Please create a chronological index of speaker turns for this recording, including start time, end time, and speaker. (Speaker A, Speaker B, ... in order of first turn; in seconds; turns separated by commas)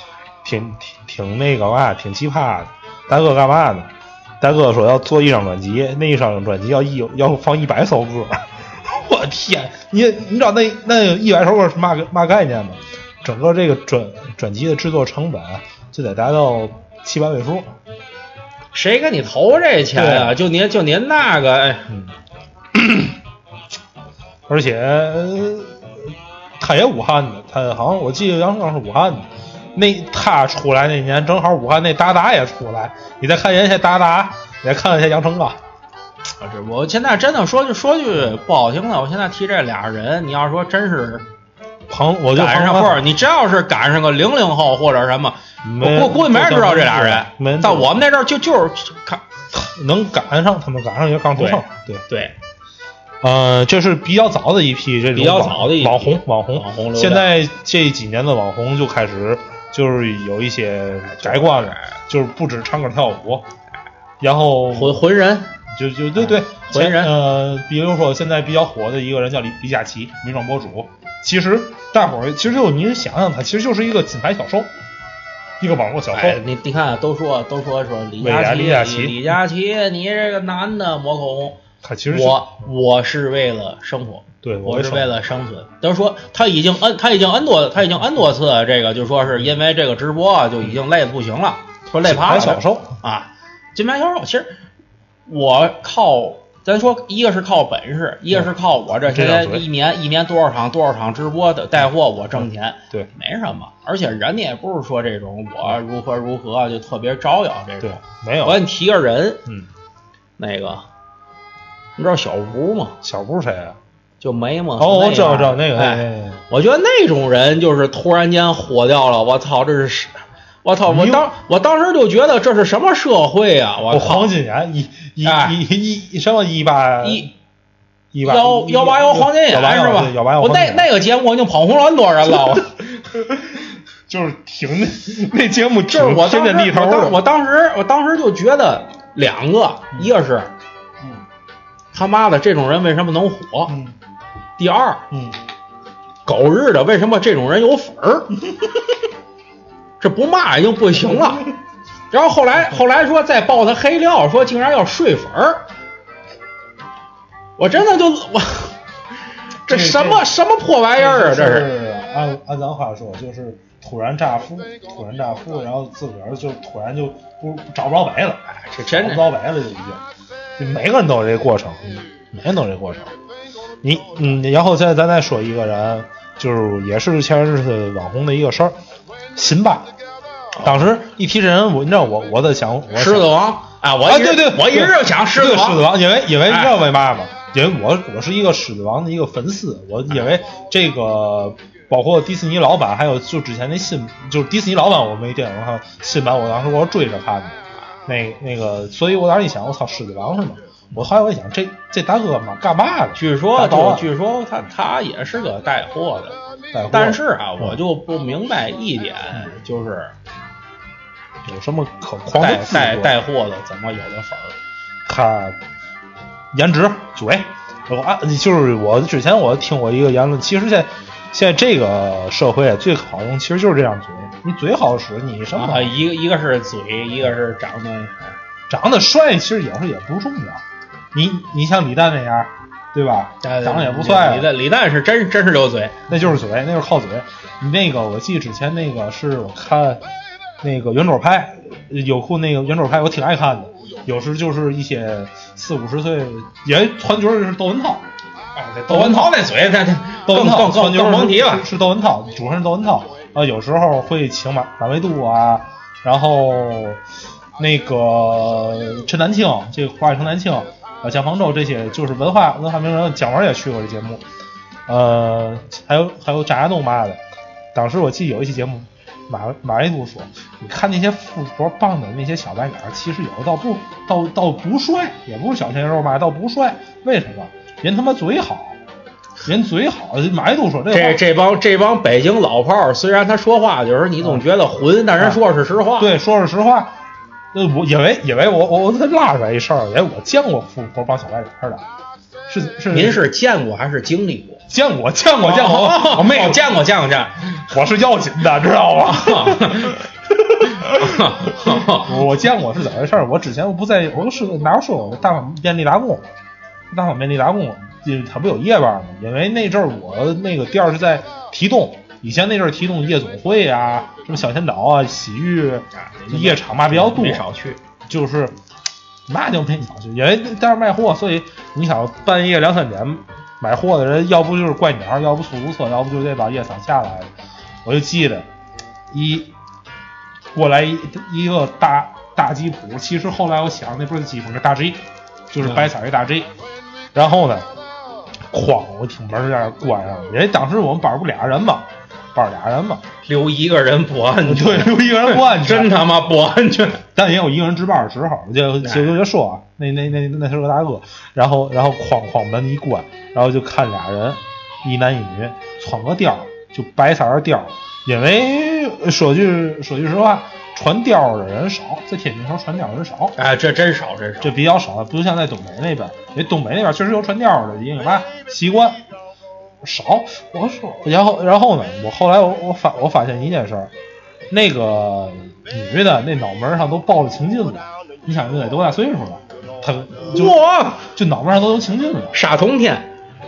Speaker A: 0.4-17.7, Speaker B: 18.7-21.9, Speaker A: 19.9-20.4, Speaker A: 22.7-23.2, Speaker A: 24.5-35.6, Speaker B: 36.4-41.3, Speaker A: 41.9-43.0, Speaker B: 42.3-49.2, Speaker A: 45.6-48.0, Speaker A: 49.5-52.0, Speaker B: 51.4-52.4, Speaker A: 53.2-63.5, Speaker B: 55.1-57.3, Speaker B: 61.1-61.9, Speaker A: 64.2-65.0, Speaker B: 64.7-65.5, Speaker A: 65.7-74.7, Speaker B: 66.2-67.1, Speaker A: 75.6-76.4, Speaker B: 76.1-94.6, Speaker A: 78.2-79.3, Speaker A: 81.8-82.5, Speaker A: 84.4-85.2, Speaker A: 92.0-93.0, Speaker B: 95.3-109.4, Speaker A: 99.1-99.7, Speaker A: 107.8-108.6, Speaker B: 110.4-110.8, Speaker B: 112.0-113.0, Speaker A: 113.0-113.8, Speaker B: 114.2-124.3, Speaker A: 114.8-116.4, Speaker A: 120.9-121.3, Speaker A: 123.9-127.3, Speaker B: 125.2-125.6, Speaker B: 127.0-127.3, Speaker A: 128.1-130.9, Speaker B: 128.2-132.7, Speaker A: 132.4-137.2, Speaker B: 135.9-140.5, Speaker B: 141.9-143.8, Speaker A: 143.7-143.9, Speaker B: 144.6-145.1, Speaker A: 145.1-145.4, Speaker B: 146.3-148.4, Speaker B: 150.0-151.5, Speaker A: 151.1-151.4, Speaker B: 152.1-155.7, Speaker B: 157.6-158.8, Speaker B: 159.7-161.7, Speaker A: 159.7-160.3, Speaker A: 161.0-170.0, Speaker B: 168.6-169.3, Speaker A: 170.6-173.1, Speaker A: 173.8-178.8, Speaker A: 179.3-179.9, Speaker A: 180.6-183.3, Speaker B: 182.9-185.8, Speaker A: 184.0-204.1, Speaker B: 186.5-186.8, Speaker B: 203.2-206.4, Speaker A: 206.7-207.8, Speaker B: 206.9-210.1, Speaker A: 211.4-213.2, Speaker B: 212.4-214.6, Speaker A: 215.1-215.6, Speaker A: 216.5-226.0, Speaker B: 225.5-228.4, Speaker A: 228.7-230.6, Speaker A: 231.1-234.5, Speaker B: 233.4-236.1, Speaker A: 236.1-240.0, Speaker A: 240.6-248.1, Speaker B: 248.6-251.7, Speaker A: 248.9-249.4, Speaker A: 250.3-257.0, Speaker A: 257.6-264.2, Speaker A: 264.9-267.2, Speaker A: 267.7-278.8, Speaker A: 279.4-281.2, Speaker B: 280.9-286.1, Speaker A: 285.2-285.4, Speaker A: 286.0-286.9, Speaker A: 287.5-291.9, Speaker A: 292.5-293.2, Speaker B: 292.9-294.6, Speaker A: 294.7-296.7, Speaker B: 295.3-297.7, Speaker A: 297.7-306.3, Speaker B: 299.0-300.0, Speaker B: 300.8-302.1, Speaker A: 306.9-317.4, Speaker B: 315.9-317.8, Speaker A: 318.1-318.6, Speaker A: 319.3-327.3, Speaker A: 327.8-328.5, Speaker A: 329.1-329.5, Speaker A: 330.5-336.5, Speaker B: 335.6-335.9, Speaker A: 337.1-337.7, Speaker A: 338.5-343.0, Speaker B: 343.2-347.0, Speaker A: 344.4-345.9, Speaker A: 347.1-363.4, Speaker B: 348.8-349.2, Speaker B: 363.4-364.5, Speaker A: 364.4-369.0, Speaker A: 369.8-373.9, Speaker A: 374.5-380.6, Speaker B: 380.3-381.1, Speaker A: 381.1-382.4, Speaker B: 382.3-383.1